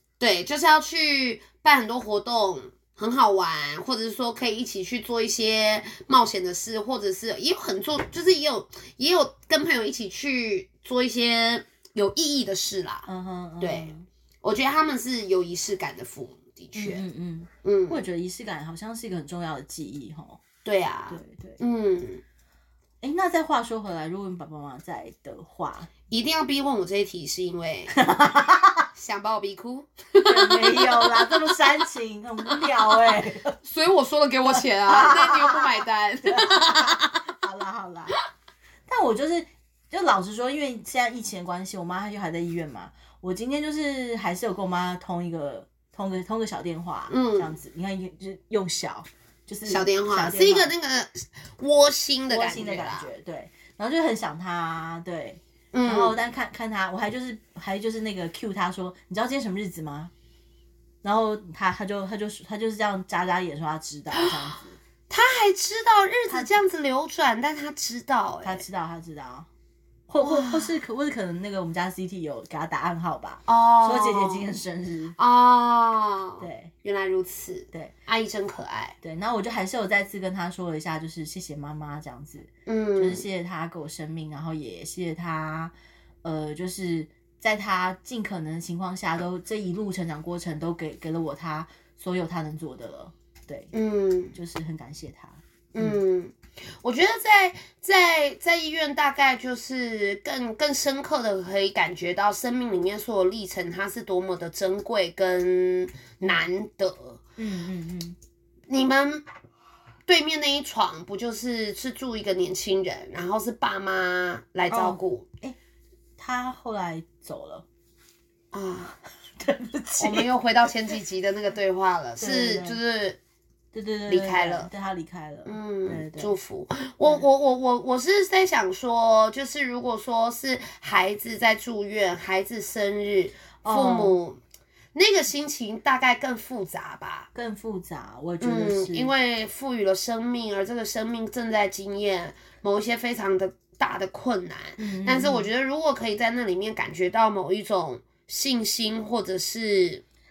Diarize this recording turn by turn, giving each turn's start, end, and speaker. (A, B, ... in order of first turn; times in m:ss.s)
0:00.2-0:13.1 A
0:13.1-0:14.1 B
0:13.6-0:17.0 A
0:16.7-0:20.4 B
0:17.6-0:18.0 A
0:20.6-0:22.2 A
0:21.1-0:21.6 B
0:23.0-0:25.9 B
0:26.1-0:28.0 A
0:27.9-0:28.8 B
0:28.9-0:31.1 A
0:30.2-0:33.6 B
0:33.6-0:37.2 A
0:34.4-0:38.1 B
0:38.9-0:50.7 B
0:47.1-0:47.6 A
0:49.7-0:53.1 A
0:52.3-1:00.1 B
0:55.7-0:56.2 A
1:01.0-1:04.8 B
1:05.1-1:08.6 A
1:06.3-1:06.6 B
1:08.4-1:09.5 B
1:10.1-1:15.2 B
1:10.2-1:10.7 A
1:13.5-1:14.5 A
1:15.2-1:19.0 A
1:16.4-1:16.7 B
1:19.0-1:25.7 B
1:22.6-1:23.2 A
1:26.2-1:33.7 B
1:33.7-1:34.4 A
1:34.3-1:36.0 B
1:35.7-1:47.2 A
1:47.4-1:48.2 B
1:48.7-1:49.2 A
1:50.1-1:55.3 A
1:54.7-1:55.6 B
1:56.2-1:57.6 B
1:58.5-1:58.9 A
1:59.4-2:00.3 B
2:00.0-2:03.2 A
2:02.2-2:02.8 B
2:03.7-2:06.4 B
2:04.1-2:04.7 A
2:05.4-2:14.4 A
2:13.6-2:14.2 B
2:14.9-2:17.3 A
2:17.3-2:19.1 B
2:18.4-2:30.0 A
2:24.8-2:25.5 B